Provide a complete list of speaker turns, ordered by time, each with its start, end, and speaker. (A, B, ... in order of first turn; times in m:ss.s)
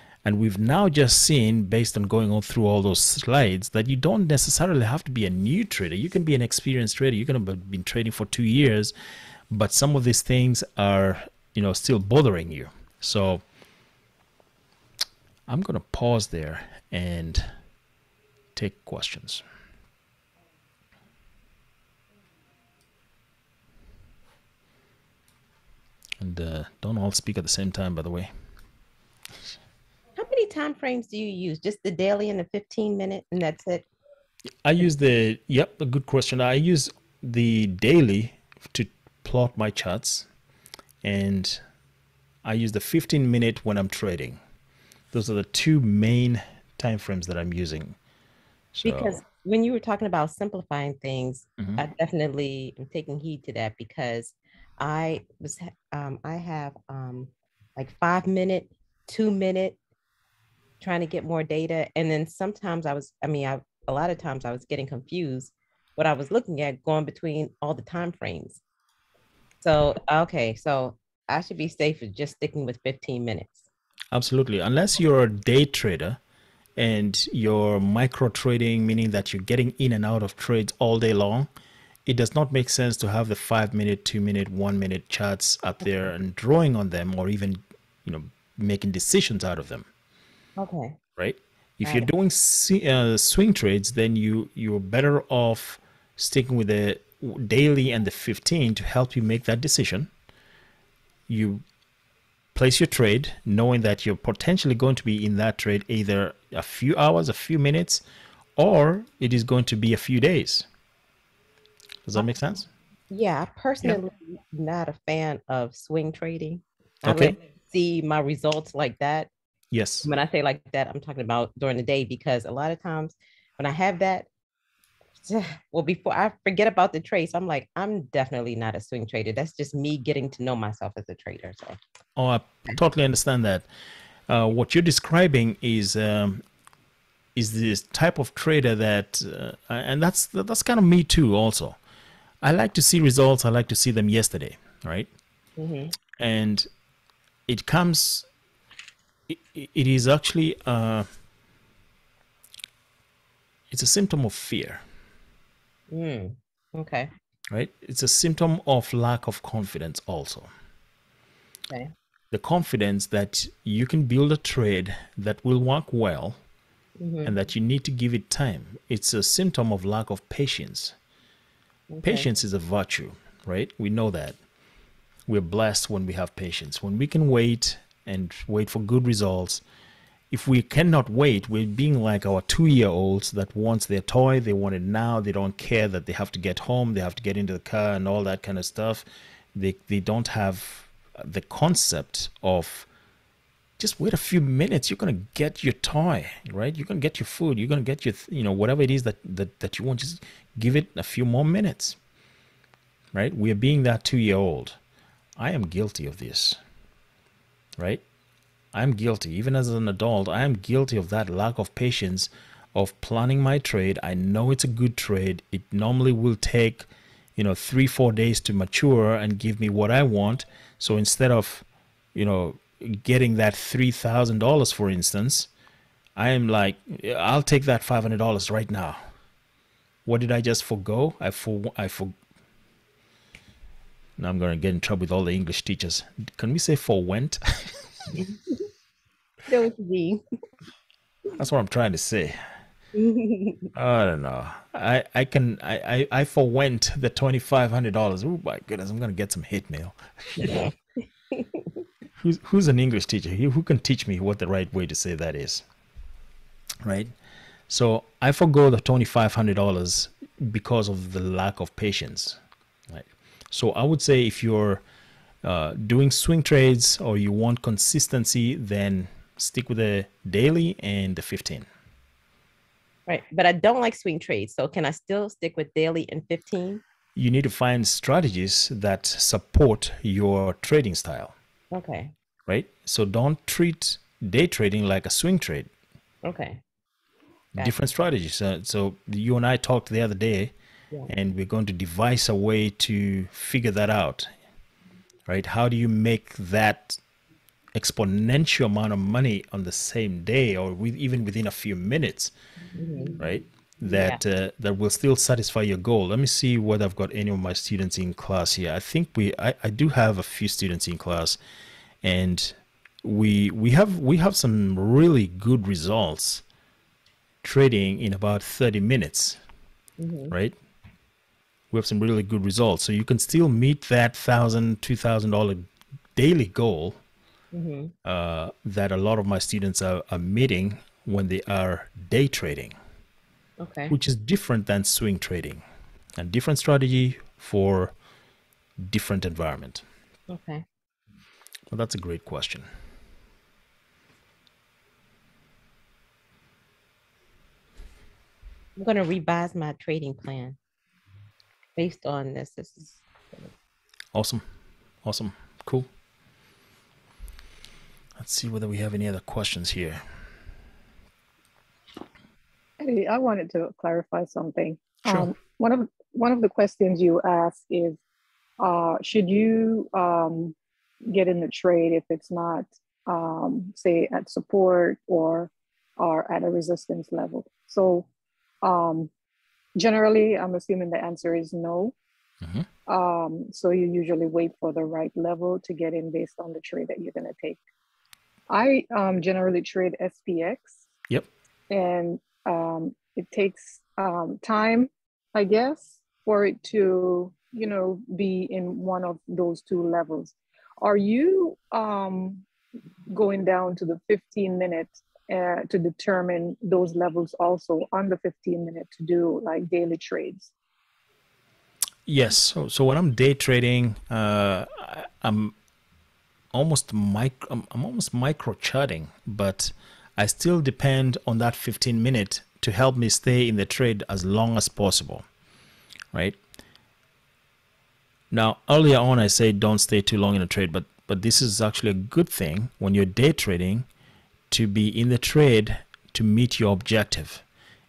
0:00.2-0:08.9 A
0:09.5-0:13.4 A
0:15.5-0:17.5 A
0:18.5-0:19.4 A
0:26.2-0:28.3 A
0:30.2-0:33.8 B
0:34.6-0:40.3 A
0:41.0-0:41.6 A
0:42.4-0:44.4 A
0:45.1-0:48.0 A
0:48.7-0:49.2 A
0:48.8-0:59.8 B
1:00.8-1:08.6 B
1:09.6-1:13.6 B
1:14.1-1:16.2 A
1:16.8-1:21.5 A
1:22.0-1:29.9 A
1:30.6-1:31.0 B
1:31.2-1:40.1 A
1:41.3-1:41.6 A
1:42.5-1:48.0 A
1:48.6-1:50.6 A
1:52.0-1:52.7 A
1:53.1-1:59.3 B
1:57.0-1:57.4 A
1:59.7-2:00.1 A
2:00.0-2:04.3 B
2:05.2-2:11.8 B
2:12.2-2:13.7 A
2:14.3-2:16.4 A
2:17.4-2:21.8 A
2:22.4-2:25.1 A
2:25.6-2:25.9 B
2:26.2-2:26.7 A
2:27.5-2:28.3 A
2:29.3-2:31.1 A
2:33.7-2:34.8 A
2:35.9-2:37.1 B
2:37.5-2:40.5 A
2:42.3-2:46.4 A
2:47.0-2:47.3 B
2:47.2-2:50.9 A
2:51.9-2:52.3 B
2:52.0-2:54.4 A
2:55.3-2:59.6 A
3:00.3-3:12.9 A
3:13.8-3:22.0 A
3:23.1-3:24.8 A
3:25.4-3:26.6 A
3:27.8-3:28.0 A
3:28.7-3:45.5 A
3:46.2-3:49.0 A
3:50.0-3:52.1 A
3:54.2-3:58.1 A
3:58.2-3:58.5 B
3:59.5-4:00.2 B
4:01.4-4:02.4 A
4:02.9-4:03.7 B
4:03.7-4:10.7 A
4:10.4-4:10.7 B
4:11.3-4:11.7 B
4:12.2-4:15.6 A
4:16.8-4:17.1 A
4:17.7-4:24.8 A
4:25.4-4:31.7 A
4:33.1-4:36.8 B
4:37.2-4:41.3 A
4:41.7-4:42.1 B
4:42.5-4:45.7 A
4:46.2-4:46.6 B
4:47.6-4:50.5 A
4:51.1-4:54.3 A
4:55.3-4:57.0 A
4:57.7-5:02.3 A
5:02.8-5:03.2 B
5:03.2-5:11.4 A
5:03.8-5:04.2 B
5:12.0-5:16.4 A
5:17.4-5:19.4 A
5:20.0-5:20.3 B
5:20.3-5:20.6 A
5:21.7-5:27.0 A
5:27.5-5:27.9 B
5:28.0-5:32.7 A
5:33.6-5:33.9 B
5:33.9-5:35.6 A
5:36.2-5:37.9 A
5:38.8-5:39.8 A
5:40.3-5:40.6 B
5:41.7-5:42.7 A
5:48.8-5:50.6 B
5:51.8-5:53.0 B
5:54.1-5:54.4 A
5:55.0-5:55.9 A
5:58.2-6:00.0 A
6:02.8-6:08.0 C
6:05.0-6:05.3 A
6:08.6-6:10.6 C
6:11.1-6:18.1 C
6:18.6-6:19.1 C
6:19.7-6:21.9 C
6:22.9-6:27.6 C
6:28.5-6:30.8 C
6:31.7-6:42.4 C
6:43.1-6:50.5 C
6:52.1-6:55.5 A
6:56.5-7:05.2 A
7:08.3-7:13.8 A
7:14.5-7:17.4 A